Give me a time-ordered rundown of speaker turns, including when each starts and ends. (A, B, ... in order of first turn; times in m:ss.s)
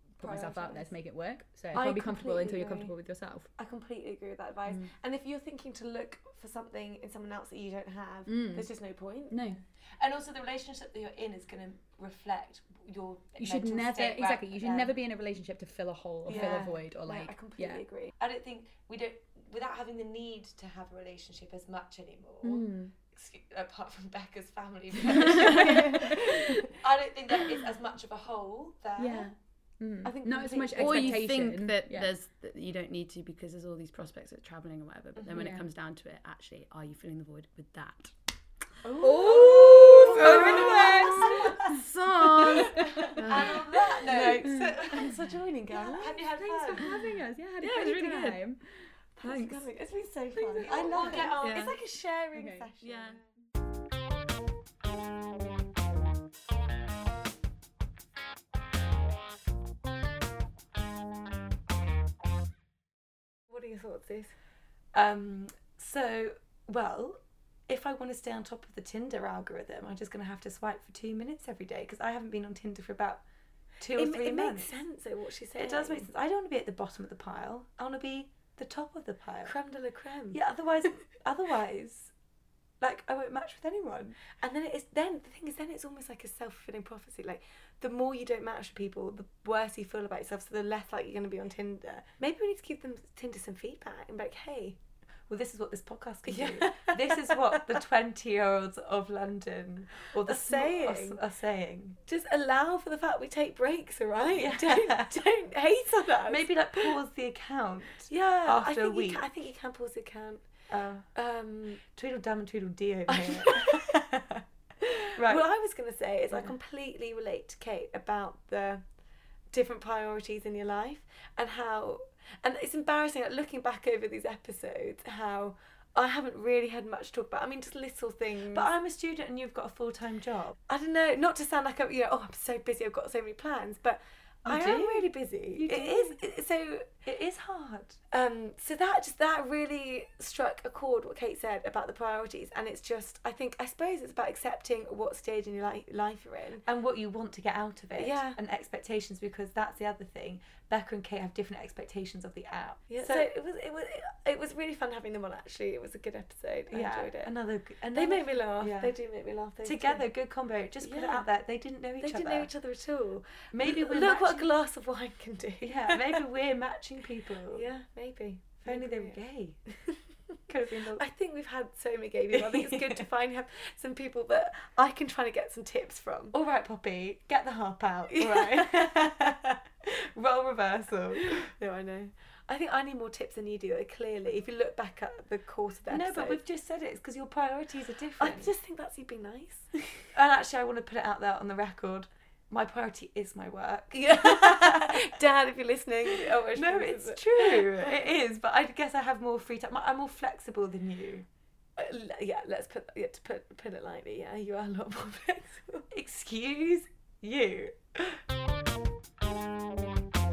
0:00.2-0:03.5 A
0:00.2-0:00.9 B
0:01.7-0:02.9 B
0:03.6-0:09.5 B
0:08.2-0:08.7 A
0:09.3-0:09.6 A
0:10.0-0:15.0 C
0:13.4-0:17.8 A
0:16.3-0:18.1 B
0:18.2-0:29.3 C
0:22.4-0:22.9 A
0:25.1-0:26.8 B
0:25.1-0:26.4 A
0:29.0-0:32.1 A
0:30.0-0:31.3 B
0:30.8-0:38.1 D
0:35.2-0:35.5 C
0:35.3-0:35.7 A
0:38.8-0:41.6 C
0:38.8-0:41.8 B
0:39.0-0:41.8 A
0:40.3-0:41.0 D
0:41.6-0:43.6 D
0:42.4-0:43.2 A
0:42.6-0:45.2 C
0:43.3-0:46.9 B
0:44.5-0:44.7 A
0:45.7-0:47.0 C
0:46.6-0:48.6 A
0:47.6-0:48.4 D
0:49.2-0:53.2 B
0:49.2-0:49.6 A
0:50.3-0:51.8 C
0:51.3-0:51.8 D
0:52.3-0:52.7 A
0:52.8-0:53.2 D
1:03.5-1:04.3 B
1:04.9-1:13.2 C
1:13.8-1:14.8 C
1:13.9-1:16.1 B
1:15.5-1:22.1 C
1:20.3-1:21.0 B
1:22.8-1:24.4 C
1:24.4-1:34.8 B
1:35.3-1:42.0 C
1:36.3-1:37.6 B
1:40.2-1:41.2 B
1:42.0-1:47.0 B
1:44.3-1:45.2 C
1:46.2-1:49.2 C
1:48.1-1:50.5 B
1:50.7-1:54.4 C
1:51.2-1:51.8 B
1:53.1-1:54.0 B
1:54.8-1:58.8 B
1:55.1-1:55.4 C
1:59.5-2:08.7 B
2:08.4-2:10.6 C
2:10.7-2:17.0 B
2:14.4-2:16.2 C
2:17.0-2:18.0 C
2:18.1-2:26.6 B
2:26.6-2:33.3 C
2:27.9-2:28.4 B
2:32.9-2:37.3 B
2:36.7-2:38.9 C
2:37.9-2:40.1 B
2:39.6-2:42.5 C
2:40.8-2:41.3 B
2:42.0-2:46.2 B
2:43.5-2:44.6 C
2:45.6-2:47.7 C
2:47.5-2:50.0 B
2:48.6-2:49.6 C
2:50.5-2:51.0 C
2:50.7-2:56.4 B
2:52.3-2:53.0 C
2:56.3-3:01.5 C
2:58.2-2:59.0 B
3:01.2-3:06.4 B
3:05.9-3:08.5 C
3:08.2-3:09.7 B
3:10.1-3:15.2 C
3:14.1-3:17.9 B
3:16.0-3:21.2 C
3:21.8-3:25.9 B
3:25.9-3:28.2 C